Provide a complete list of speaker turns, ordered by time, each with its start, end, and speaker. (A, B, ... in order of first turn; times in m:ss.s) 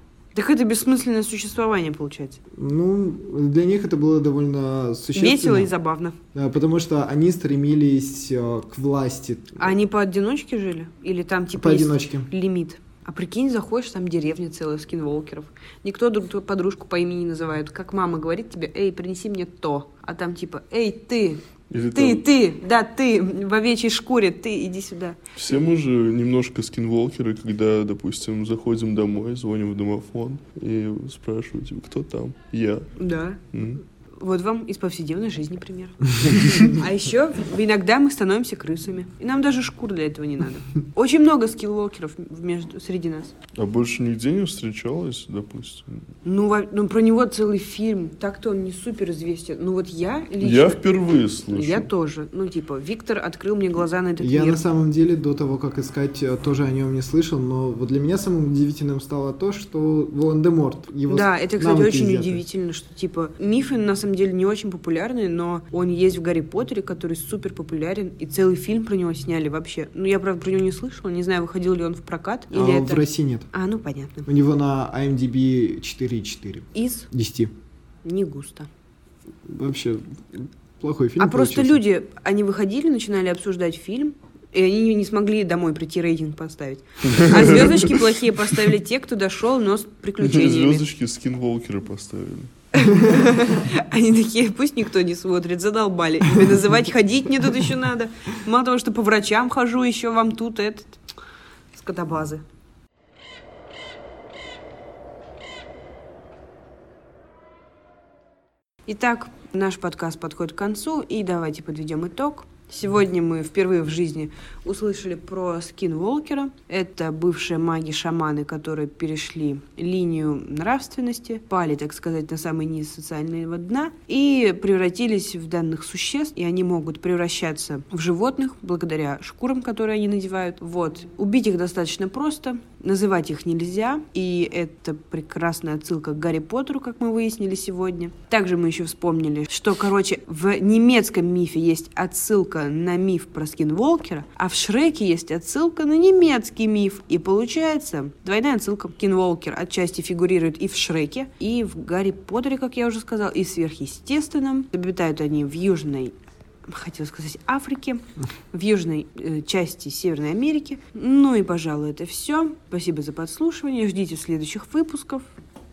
0:00.3-0:02.4 A
0:02.5-0:05.7 B
0:05.2-0:06.2 A
0:06.3-0:09.7 B
0:09.6-0:25.2 A
0:11.5-0:12.3 B
0:21.7-0:22.2 C
0:25.4-0:32.9 C
0:33.0-0:33.4 A
0:33.5-0:33.8 C
0:34.1-0:43.4 A
0:43.6-0:46.0 C
0:46.2-0:50.8 A
0:50.4-0:51.9 C
0:51.5-0:54.6 A
0:54.2-1:02.4 B
1:01.1-1:14.3 A
1:12.5-1:13.5 B
1:14.3-1:17.5 B
1:16.7-1:17.1 A
1:18.0-1:18.7 A
1:19.5-1:21.8 B
1:21.2-1:30.8 A
1:27.2-1:28.0 C
1:30.2-1:32.5 C
1:32.7-1:41.0 A
1:41.7-1:42.4 A
1:48.9-2:36.2 A
2:36.7-2:45.3 A